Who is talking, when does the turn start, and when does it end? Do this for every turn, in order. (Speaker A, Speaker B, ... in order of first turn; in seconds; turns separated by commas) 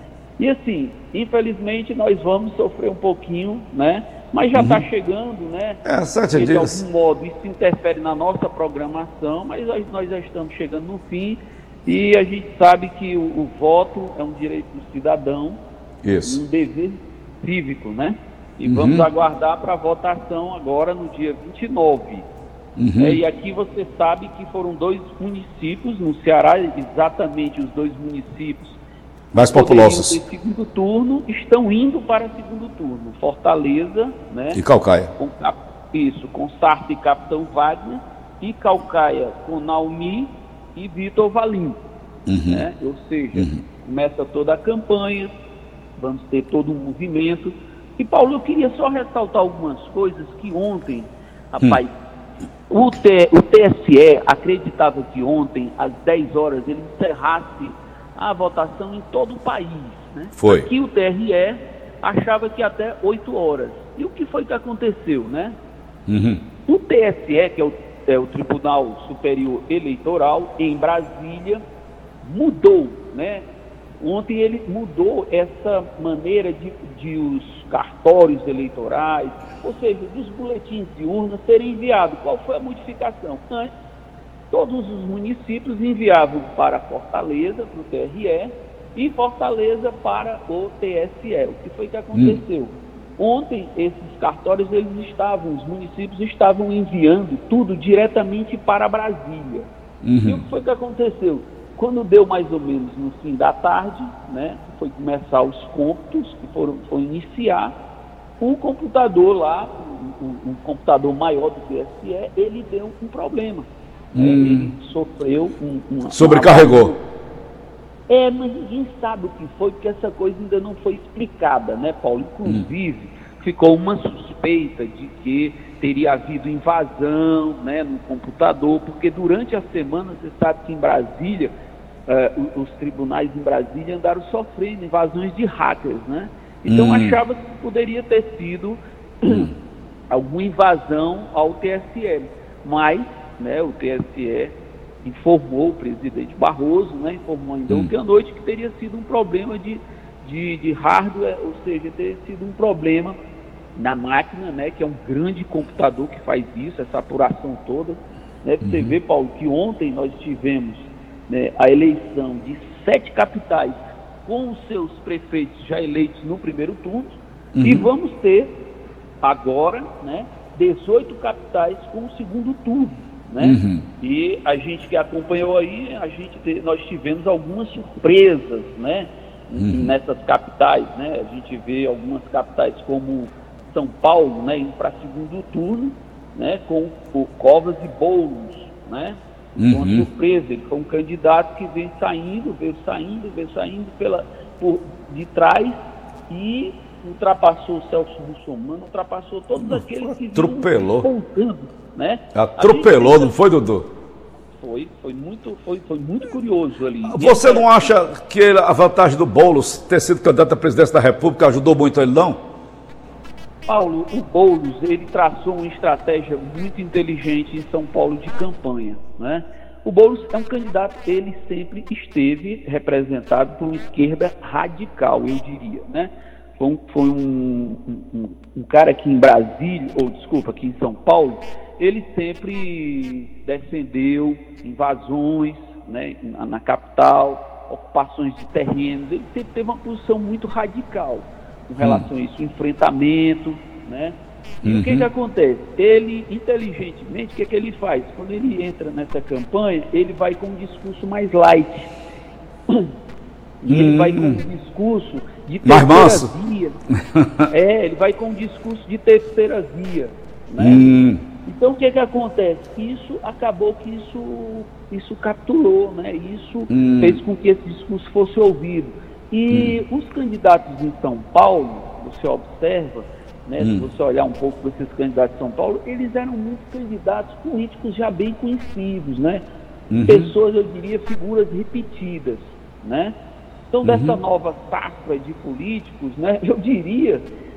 Speaker A: 0.4-5.8, Speaker B: 4.5-4.8, Speaker B: 5.8-6.8, Speaker A: 6.3-15.6, Speaker B: 16.0-16.4, Speaker A: 16.2-22.3, Speaker B: 18.6-19.1, Speaker B: 22.8-23.2, Speaker A: 23.0-28.8, Speaker B: 29.3-30.2, Speaker A: 29.5-34.6, Speaker B: 34.5-35.1, Speaker A: 35.2-41.8, Speaker B: 42.3-42.6, Speaker A: 42.5-45.3, Speaker B: 43.4-43.6, Speaker A: 46.0-51.9, Speaker A: 52.7-65.6, Speaker B: 60.4-60.7, Speaker B: 66.1-66.4, Speaker A: 66.7-71.6, Speaker A: 72.2-73.5, Speaker A: 74.0-83.7, Speaker A: 84.5-99.7, Speaker B: 92.1-92.4, Speaker B: 100.0-100.4, Speaker A: 100.2-107.8, Speaker A: 108.4-117.0, Speaker B: 114.1-114.7, Speaker B: 116.1-116.9, Speaker A: 118.1-131.5, Speaker A: 132.1-139.5, Speaker B: 136.7-137.2, Speaker B: 139.3-139.5, Speaker A: 140.1-153.2, Speaker A: 153.8-168.5, Speaker B: 158.6-158.9, Speaker B: 167.6-167.9, Speaker A: 169.2-195.8, Speaker B: 173.4-173.8, Speaker B: 179.6-179.9, Speaker B: 189.6-190.1, Speaker A: 196.3-203.3, Speaker B: 200.3-201.1, Speaker B: 202.3-203.8, Speaker A: 204.5-207.9, Speaker B: 207.0-212.4, Speaker A: 213.7-251.9, Speaker B: 241.8-242.1, Speaker B: 244.6-245.1, Speaker A: 253.6-256.8, Speaker B: 253.7-254.4, Speaker B: 255.6-256.3, Speaker B: 257.1-257.5, Speaker A: 257.5-279.4, Speaker B: 260.6-261.2, Speaker B: 266.7-267.2, Speaker B: 269.5-269.8, Speaker B: 273.6-273.9, Speaker B: 279.9-280.3, Speaker A: 280.1-283.1, Speaker A: 283.7-287.2, Speaker B: 283.8-284.2